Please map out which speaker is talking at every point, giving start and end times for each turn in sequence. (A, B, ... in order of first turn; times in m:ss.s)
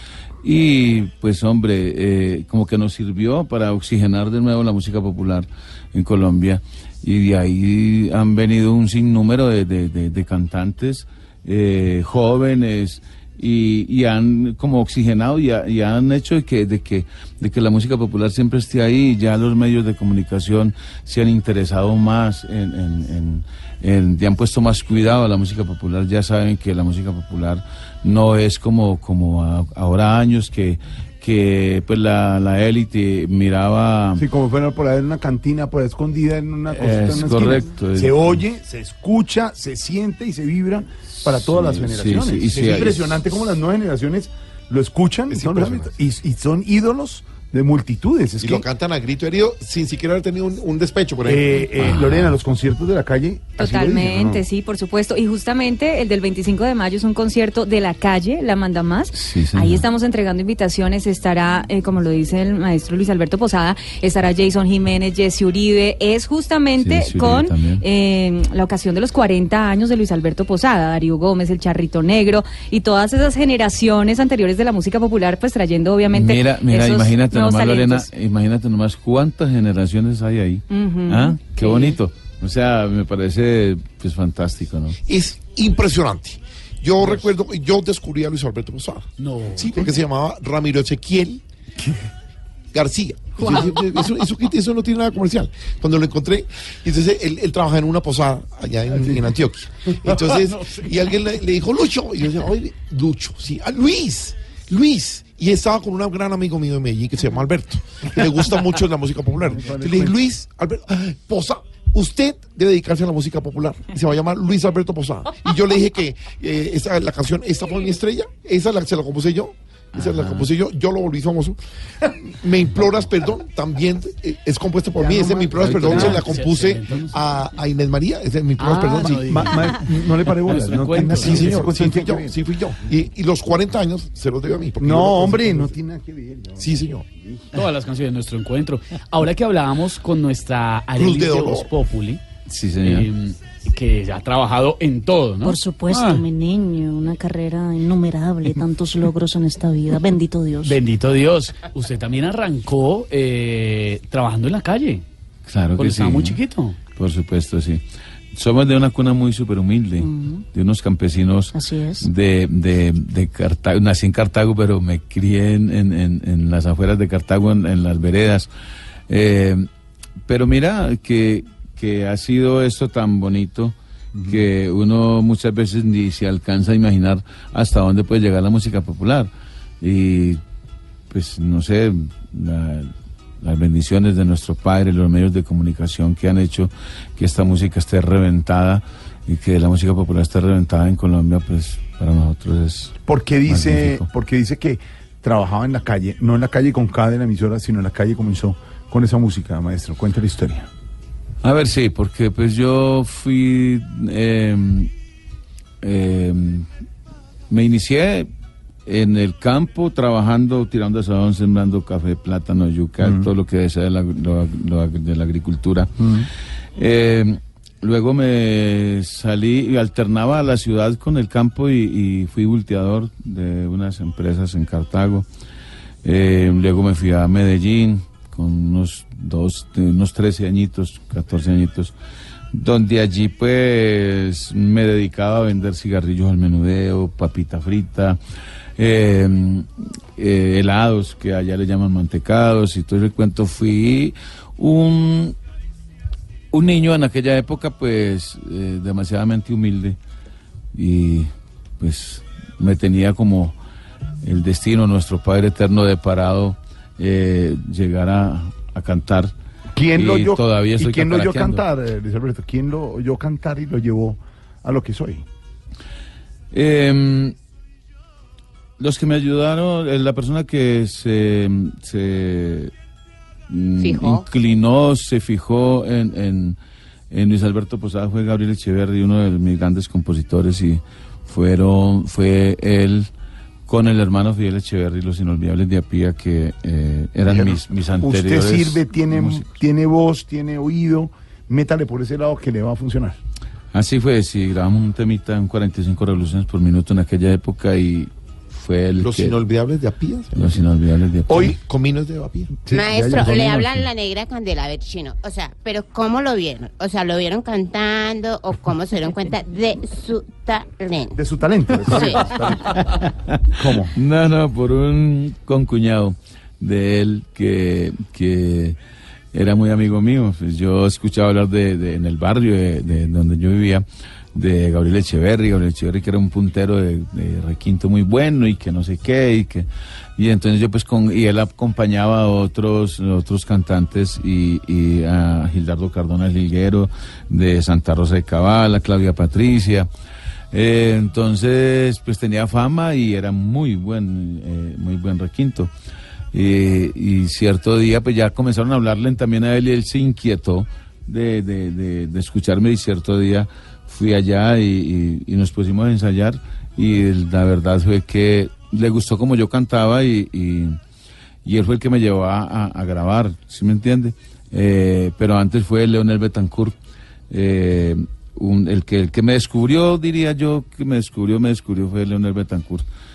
0:00.4-0:34.2 A
0:34.2-0:48.7 B
0:36.7-0:38.4 A
0:41.2-0:43.2 A
0:45.3-0:45.9 C
0:48.4-0:51.6 C
0:51.2-0:54.4 B
0:51.9-0:52.3 A
0:53.6-1:18.1 D
0:59.2-0:59.8 A
1:06.8-1:07.8 A
1:16.1-1:25.0 A
1:20.7-1:22.0 D
1:25.0-1:31.4 C
1:29.2-1:29.9 E
1:32.7-2:01.6 C
1:38.9-1:39.4 B
1:40.1-1:40.4 B
1:49.5-1:50.2 B
2:00.0-2:00.5 E
2:02.2-2:09.4 C
2:05.0-2:06.2 B
2:05.6-2:07.2 E
2:08.6-2:09.8 E
2:09.2-2:12.4 B
2:10.4-2:11.6 E
2:11.1-2:15.7 C
2:14.8-2:17.5 B
2:16.6-2:17.0 C
2:17.5-2:22.2 E
2:21.0-2:21.7 C
2:22.5-2:23.1 A
2:22.8-2:26.2 E
2:25.4-2:30.8 F
2:30.6-2:35.0 E
2:35.5-2:36.4 A
2:35.8-2:36.8 E
2:37.0-2:37.8 A
2:38.3-2:48.5 A
2:40.0-2:40.4 F
2:41.5-2:42.0 F
2:49.1-2:49.7 A
2:50.3-2:59.3 A
2:59.8-3:00.4 A
3:01.1-3:02.9 A
3:03.4-3:13.0 A
3:13.0-3:20.7 B
3:13.5-3:14.0 A
3:21.4-3:24.9 A
3:25.8-3:26.7 A
3:27.5-3:28.3 A
3:28.9-3:35.9 A
3:36.0-3:36.3 B
3:36.8-3:45.3 A
3:46.0-3:52.0 A
3:52.5-3:58.2 A
3:58.8-4:05.3 A
4:06.5-4:10.0 A
4:10.7-4:13.6 A
4:14.2-4:19.3 A
4:19.7-4:25.2 B
4:19.9-4:21.6 A
4:26.5-4:27.3 A
4:28.8-4:32.7 A
4:33.5-4:36.6 A
4:33.8-4:34.2 G
4:37.1-4:43.1 A
4:43.7-4:49.5 A
4:47.3-4:53.2 B
4:53.7-4:59.4 A
4:59.0-5:00.3 C
5:00.3-5:01.5 A
5:01.3-5:01.6 B
5:01.5-5:02.6 C
5:02.7-5:03.9 B
5:02.7-5:11.1 G
5:11.1-5:12.8 B
5:11.9-5:12.2 G
5:13.6-5:13.9 B
5:13.8-5:18.8 A
5:19.3-5:39.9 A
5:40.5-5:45.7 A
5:46.3-6:00.8 A
6:01.4-6:06.8 A
6:07.3-6:12.8 A